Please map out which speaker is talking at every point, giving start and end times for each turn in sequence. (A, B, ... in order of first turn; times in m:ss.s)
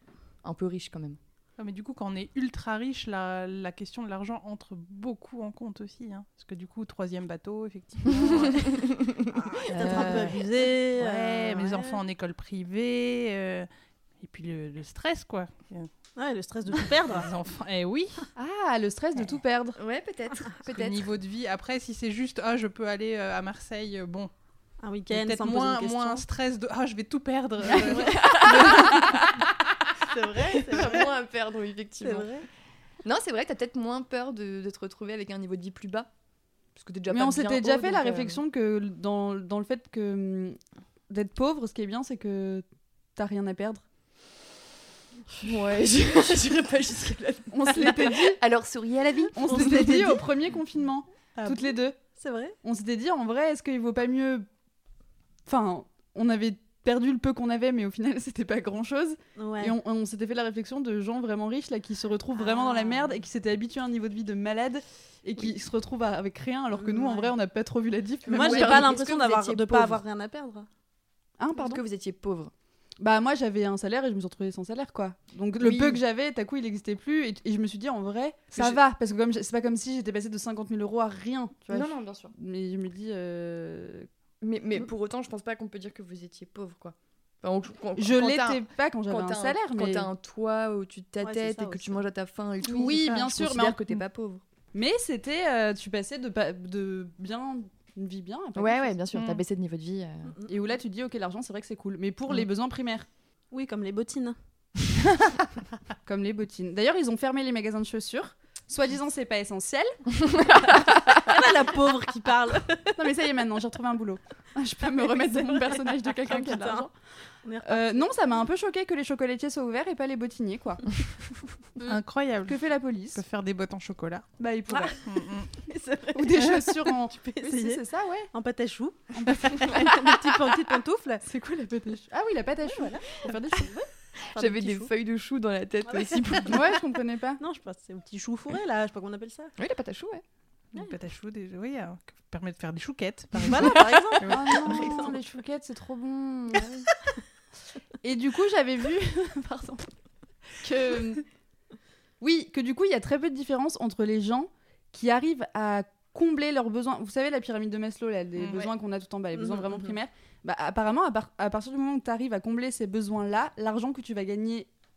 0:00.4-0:01.2 A
0:01.6-0:08.9 B
0:08.2-0:09.2 A
0:09.3-0:12.0 C
0:09.8-0:13.7 B
0:09.8-0:10.3 A
0:14.2-0:15.9 B
0:16.2-0:17.3 C
0:16.8-0:18.3 B
0:18.4-0:19.8 D
0:19.8-0:21.1 A
0:20.7-0:24.3 B
0:24.8-0:26.2 C
0:25.1-0:29.3 B
0:27.8-0:29.0 C
0:28.1-0:29.5 A
0:30.0-0:31.1 C
0:30.6-0:32.3 A
0:32.0-0:32.4 C
0:33.0-0:36.1 A
0:36.8-0:38.4 A
0:37.1-0:43.8 D
0:45.4-0:50.2 A
0:47.5-0:48.4 D
0:49.4-0:52.0 D
0:49.5-0:50.2 C
0:51.4-0:52.6 C
0:52.6-0:54.5 D
0:55.5-1:09.0 D
0:59.4-0:59.8 C
1:02.3-1:03.2 C
1:06.7-1:07.4 C
1:08.3-1:10.0 A
1:08.3-1:10.7 C
1:11.4-1:11.8 D
1:11.6-1:12.5 A
1:13.0-1:24.1 D
1:15.6-1:16.0 A
1:21.7-1:22.3 A
1:24.4-1:34.4 A
1:28.0-1:30.1 D
1:31.2-1:32.0 C
1:32.6-1:33.8 D
1:32.8-1:33.3 B
1:34.7-1:39.0 D
1:38.6-1:40.3 A
1:39.1-1:39.4 B
1:40.5-1:43.1 D
1:43.5-1:44.4 C
1:46.0-1:50.9 D
1:50.5-1:51.2 A
1:50.9-1:53.0 C
1:53.0-1:56.9 D
1:55.0-1:56.3 A
1:56.2-1:56.9 C
1:57.4-1:58.1 C
1:57.6-2:01.1 D
2:01.9-2:04.3 B
2:02.5-2:03.2 D
2:04.4-2:05.0 D
2:04.7-2:11.2 C
2:05.0-2:05.5 B
2:06.2-2:08.3 D
2:09.1-2:10.0 D
2:11.3-2:12.0 A
2:12.0-2:13.7 D
2:12.7-2:14.9 C
2:14.3-2:16.8 A
2:15.8-2:16.6 C
2:16.5-2:17.4 D
2:17.4-2:19.5 C
2:19.6-2:20.2 A
2:20.7-2:24.6 B
2:23.4-2:25.2 C
2:24.2-2:26.9 D
2:28.0-2:29.9 D
2:30.5-2:31.2 D
2:32.2-2:44.7 D
2:38.4-2:38.7 B
2:39.4-2:40.0 C